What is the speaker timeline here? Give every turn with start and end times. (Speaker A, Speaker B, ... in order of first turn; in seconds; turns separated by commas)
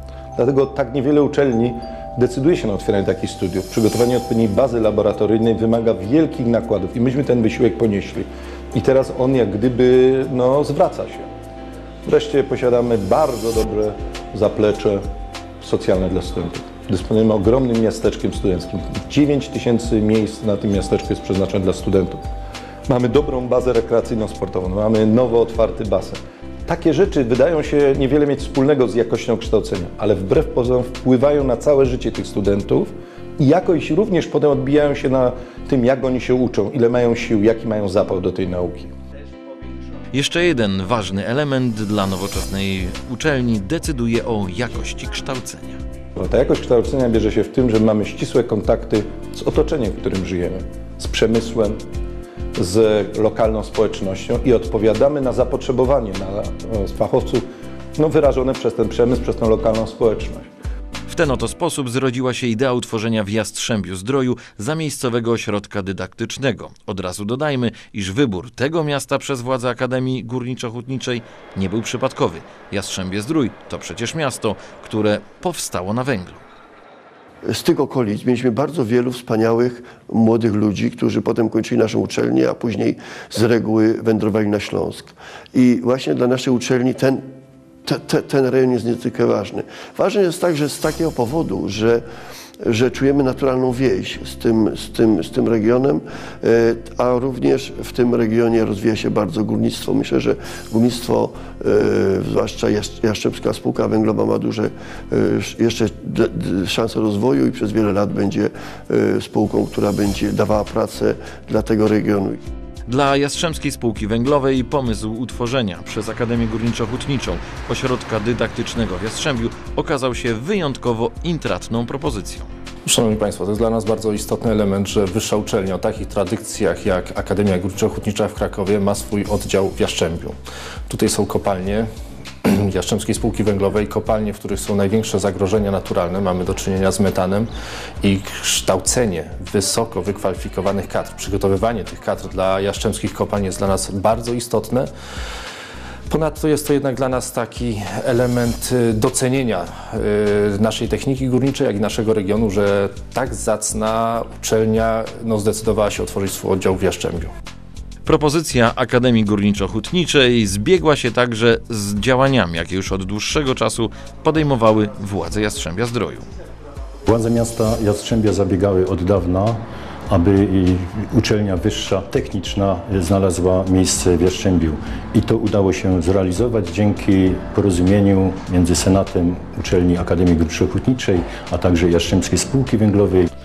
Speaker A: 0.4-11.3, Speaker A: 12.1-15.0, Speaker A: 15.6-22.2, Speaker A: 22.9-38.9, Speaker B: 40.1-45.8, Speaker A: 46.2-51.8, Speaker A: 52.6-60.5, Speaker B: 61.1-76.4, Speaker C: 77.5-87.3, Speaker C: 87.9-92.0, Speaker C: 92.7-112.4, Speaker B: 112.9-122.5, Speaker D: 122.9-130.3, Speaker D: 130.9-131.9, Speaker D: 132.4-137.5, Speaker D: 138.0-144.9, Speaker D: 146.1-157.3, Speaker B: 158.1-166.3, Speaker E: 167.1-183.3